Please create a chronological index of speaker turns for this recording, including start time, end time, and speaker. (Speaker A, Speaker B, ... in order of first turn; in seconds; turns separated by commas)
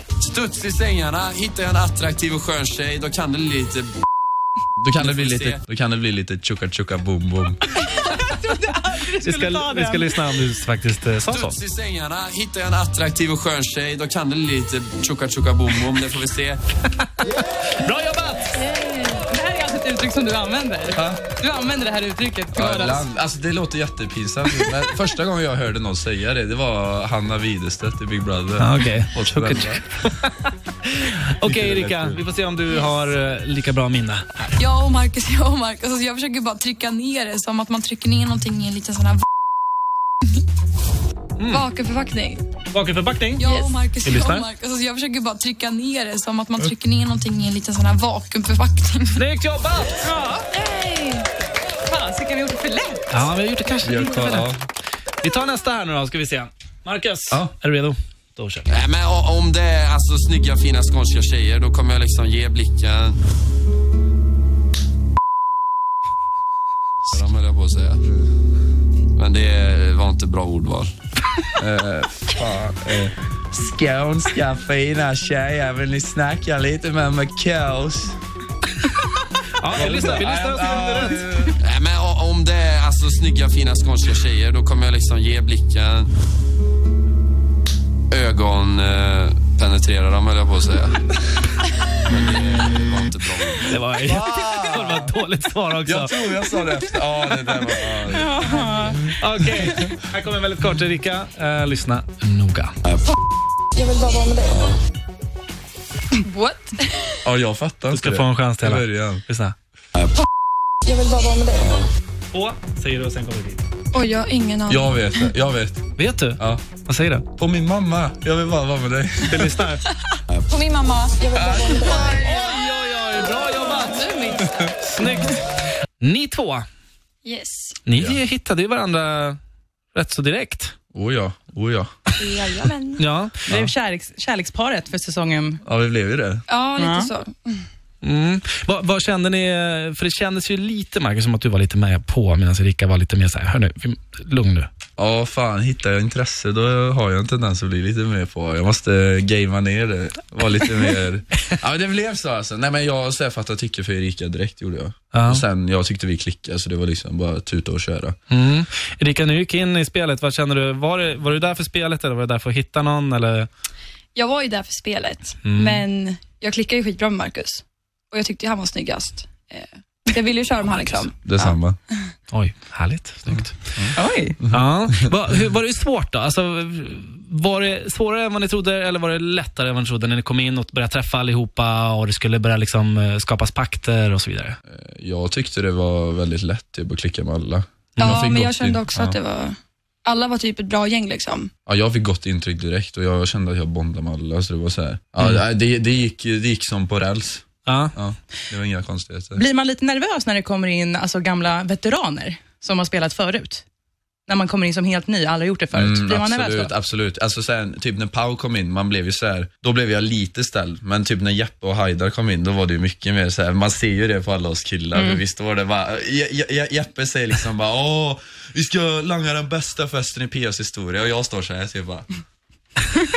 Speaker A: 0.2-3.9, Speaker B: 4.8-7.6, Speaker A: 5.0-5.6, Speaker C: 7.8-10.3, Speaker D: 9.2-11.6, Speaker A: 11.3-16.6, Speaker D: 17.2-18.6, Speaker C: 18.6-23.1, Speaker B: 20.9-21.3, Speaker B: 22.5-29.8, Speaker D: 28.6-34.3, Speaker B: 31.4-32.2, Speaker E: 34.6-39.2, Speaker D: 41.4-41.7, Speaker E: 41.5-42.4, Speaker D: 42.7-44.5, Speaker E: 43.4-49.2, Speaker D: 49.1-50.1, Speaker C: 50.0-50.5, Speaker E: 50.5-51.3, Speaker C: 51.8-53.1, Speaker D: 53.1-54.5, Speaker B: 53.8-54.6, Speaker D: 55.2-58.7, Speaker A: 58.7-63.2, Speaker A: 67.0-68.0, Speaker A: 69.2-70.9, Speaker B: 71.6-78.1, Speaker D: 79.6-81.3, Speaker B: 79.7-81.6, Speaker A: 81.6-86.1, Speaker A: 88.1-91.0, Speaker A: 92.0-93.7, Speaker D: 93.6-96.1, Speaker B: 94.0-95.1, Speaker B: 95.8-98.7, Speaker C: 98.1-99.1, Speaker D: 99.2-102.7, Speaker A: 102.8-103.1, Speaker E: 103.7-104.7, Speaker E: 106.1-107.2, Speaker B: 107.2-109.2, Speaker D: 107.9-109.5, Speaker A: 109.9-110.2, Speaker E: 110.8-111.8, Speaker A: 111.6-111.8, Speaker D: 112.3-113.6, Speaker E: 113.9-115.3, Speaker B: 114.7-115.8, Speaker D: 116.0-117.3, Speaker B: 116.4-116.6, Speaker B: 117.4-119.5, Speaker D: 119.3-119.8, Speaker A: 120.3-120.9, Speaker E: 121.2-122.5, Speaker B: 121.6-122.0, Speaker D: 122.0-124.3, Speaker E: 123.6-124.9, Speaker B: 124.5-124.7, Speaker D: 125.0-125.4, Speaker D: 126.0-126.6, Speaker E: 127.2-127.8, Speaker D: 127.8-129.4, Speaker D: 129.9-130.7, Speaker B: 130.9-131.9, Speaker E: 132.2-133.0, Speaker D: 133.0-133.7, Speaker C: 133.5-135.6, Speaker B: 135.7-136.4, Speaker E: 136.5-137.7, Speaker C: 136.8-137.1, Speaker D: 138.0-144.7, Speaker B: 145.0-158.2, Speaker D: 155.1-155.4, Speaker D: 158.3-163.5, Speaker E: 164.1-171.5, Speaker D: 165.4-165.8, Speaker B: 171.2-171.8, Speaker D: 172.3-173.5, Speaker B: 173.8-174.9, Speaker C: 173.9-174.4, Speaker D: 174.5-184.6, Speaker B: 184.7-189.2, Speaker D: 187.9-188.3, Speaker E: 188.0-191.5, Speaker B: 191.7-199.4, Speaker D: 197.7-197.9, Speaker C: 199.3-203.6, Speaker C: 204.3-206.7, Speaker B: 205.7-222.1, Speaker C: 214.9-215.2